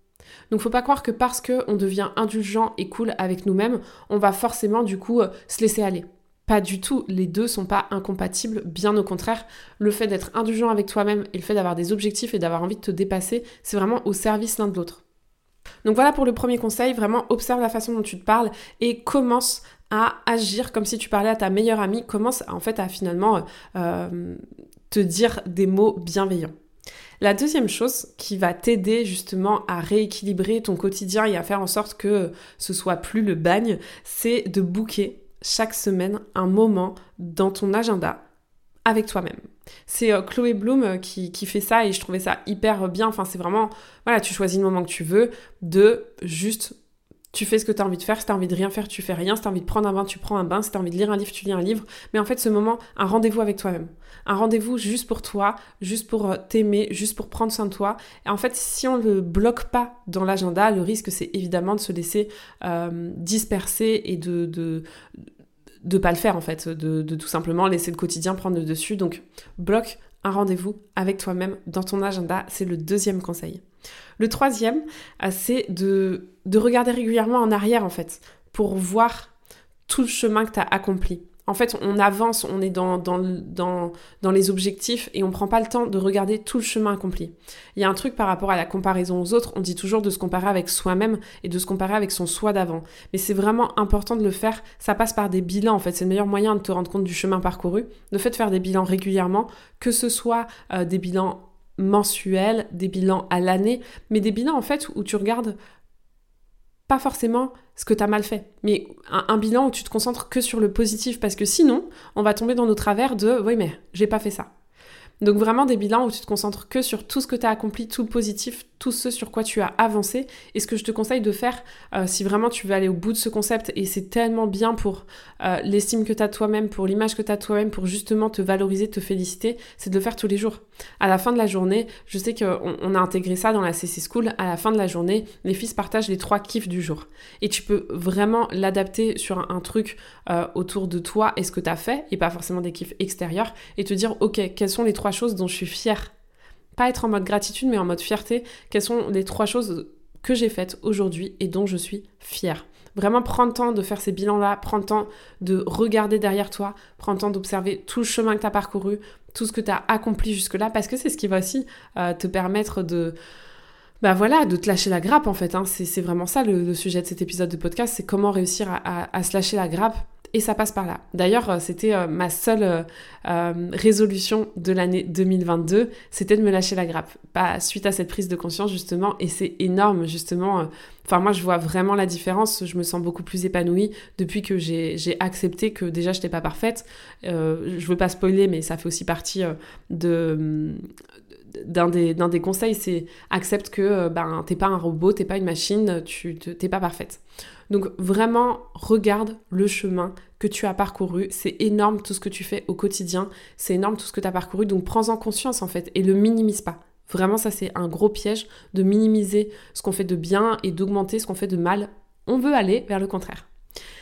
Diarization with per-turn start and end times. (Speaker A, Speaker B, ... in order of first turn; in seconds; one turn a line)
Speaker A: 0.5-15.0
Speaker A: 15.8-26.5
Speaker A: 27.2-38.2
Speaker A: 38.9-46.7
Speaker A: 47.3-64.8
Speaker A: 65.8-73.6
Speaker A: 74.2-79.3
Speaker A: 79.9-105.5
Speaker A: 106.9-114.5
Speaker A: 115.2-146.1
Speaker A: 146.8-163.2
Speaker A: 164.0-190.8
Speaker A: 191.5-213.5